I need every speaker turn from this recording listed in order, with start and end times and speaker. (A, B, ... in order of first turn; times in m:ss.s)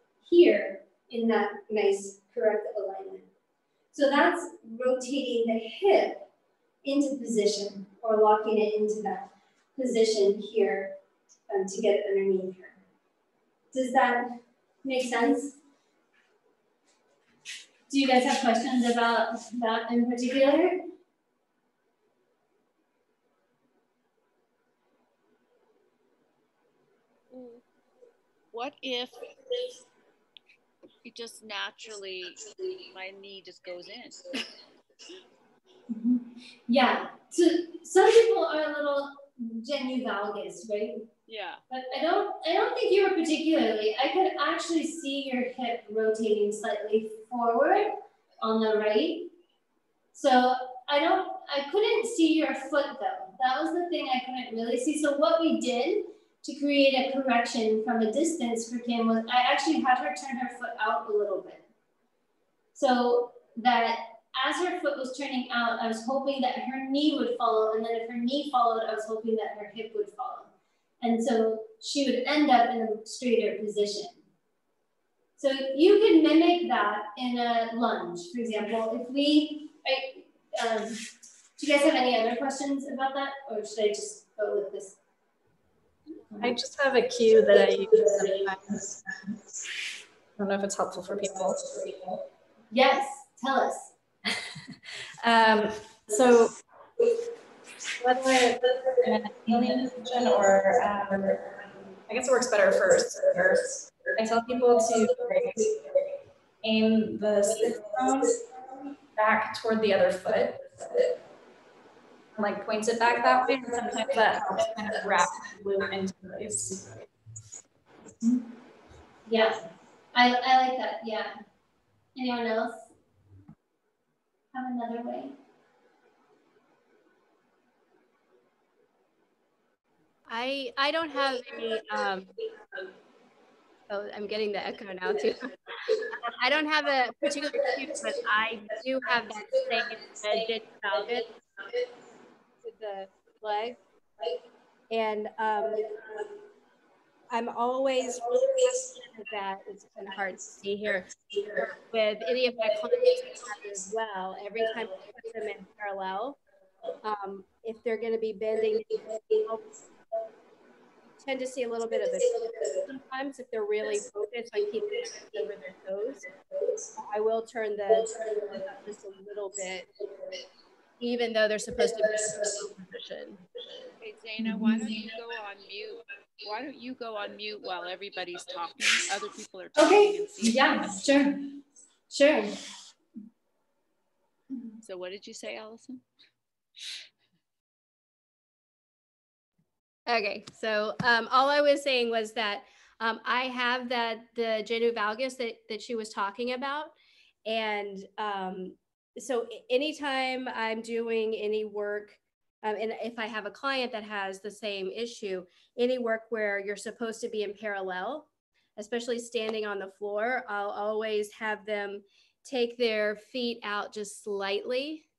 0:00.2-0:03.2 A
0:03.9-0:06.3 A
0:06.8-0:10.9 A
0:11.5-0:12.8 A
0:13.7-0:14.3 A
0:14.8-0:15.6 A
0:17.9-0:20.8 A
0:27.3-0:27.6 B
0:28.5-0:29.6 B
0:31.0-0:34.4 B
0:35.9-0:41.1 A
0:41.3-0:41.6 B
0:41.7-0:49.3 A
0:50.1-1:01.6 A
1:02.7-1:14.2 A
1:15.4-1:21.0 A
1:21.6-1:25.0 A
1:26.4-1:29.6 C
1:30.4-1:32.2 C
1:32.7-1:33.9 A
1:35.2-1:36.5 C
1:38.0-1:46.0 C
1:46.6-1:48.4 C
1:49.1-1:51.1 C
1:52.3-1:56.9 C
1:59.2-2:01.4 A
2:02.2-2:02.9 A
2:04.5-2:05.3 A
2:10.3-2:12.3 D
2:13.9-2:21.4 D
2:22.6-2:23.8 D
2:24.9-2:26.2 D
2:27.3-2:36.4 D
2:37.0-2:39.8 D
2:41.2-2:46.3 D
2:46.9-2:49.9 D
2:51.0-2:53.4 D
2:54.0-3:01.3 B
2:59.8-3:01.4 A
3:02.1-3:02.5 A
3:04.8-3:06.0 B
3:10.1-3:35.0 D